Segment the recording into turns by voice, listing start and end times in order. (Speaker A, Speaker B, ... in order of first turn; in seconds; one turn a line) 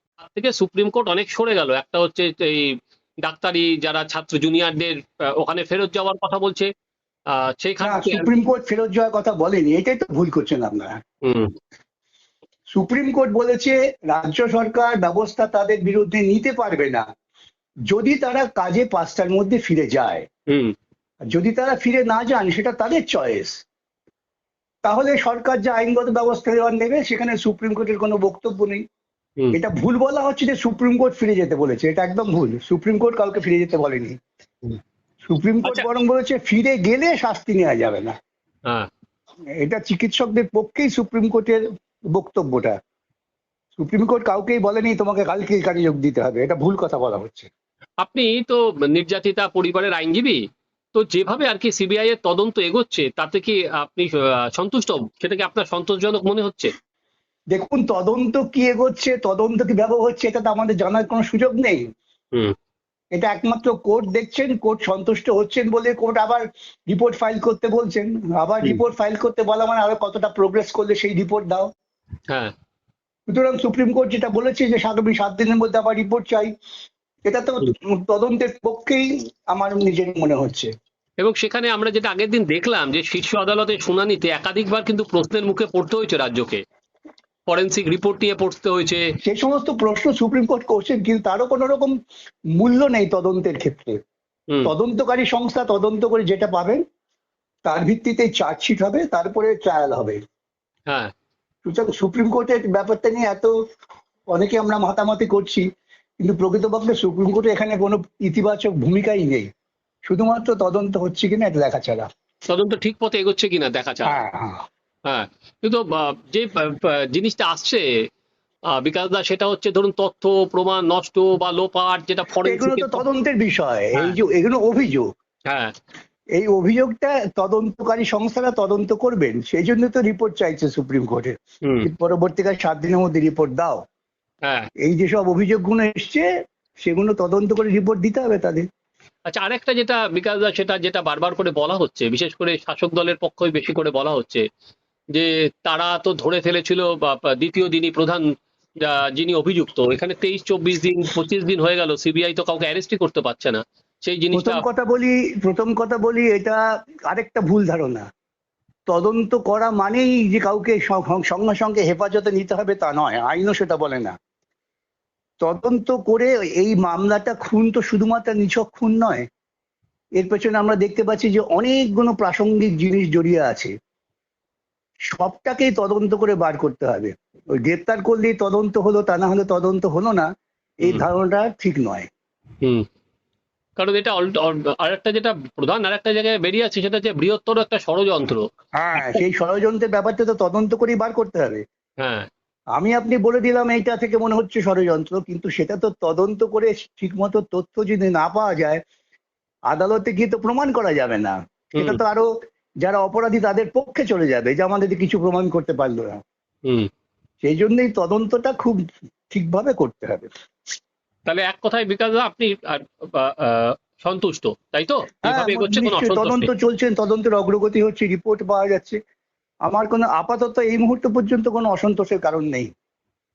Speaker A: 0.2-6.7
Speaker A: 7.3-8.3
Speaker B: 7.8-11.0
Speaker A: 11.2-11.5
Speaker B: 12.7-17.1
Speaker B: 17.9-20.3
Speaker A: 20.5-20.7
Speaker B: 21.3-23.6
Speaker B: 24.8-28.8
Speaker B: 29.5-34.2
Speaker B: 35.2-38.1
Speaker B: 39.6-41.6
Speaker B: 42.1-42.8
Speaker B: 43.8-47.5
Speaker A: 48.0-50.4
Speaker A: 50.9-56.7
Speaker B: 57.5-61.8
Speaker B: 63.1-71.7
Speaker B: 73.3-76.5
Speaker B: 77.2-80.7
Speaker A: 81.2-86.6
Speaker A: 87.5-89.1
Speaker B: 89.2-92.0
Speaker B: 92.6-94.0
Speaker B: 94.6-96.8
Speaker B: 97.7-100.2
Speaker B: 101.7-103.5
Speaker B: 104.3-105.7
Speaker B: 106.2-109.5
Speaker B: 110.1-112.1
Speaker A: 112.5-114.2
Speaker B: 114.0-114.6
Speaker A: 115.1-117.8
Speaker A: 118.7-123.0
Speaker B: 122.4-125.1
Speaker B: 126.4-133.8
Speaker A: 131.6-131.9
Speaker B: 134.8-136.3
Speaker B: 136.8-138.7
Speaker A: 139.3-144.4
Speaker A: 145.1-148.3
Speaker A: 148.8-154.7
Speaker B: 154.3-158.1
Speaker B: 158.9-164.2
Speaker B: 165.4-169.3
Speaker B: 170.2-173.7
Speaker B: 175.1-180.3
Speaker B: 180.8-182.1
Speaker A: 180.8-181.1
Speaker A: 183.8-189.2
Speaker B: 188.8-191.6
Speaker A: 192.0-192.3
Speaker B: 192.8-198.8
Speaker B: 199.7-202.3
Speaker A: 201.8-202.0
Speaker B: 202.8-206.2
Speaker B: 207.4-210.3
Speaker A: 211.3-216.5
Speaker B: 215.2-219.0
Speaker B: 219.7-222.7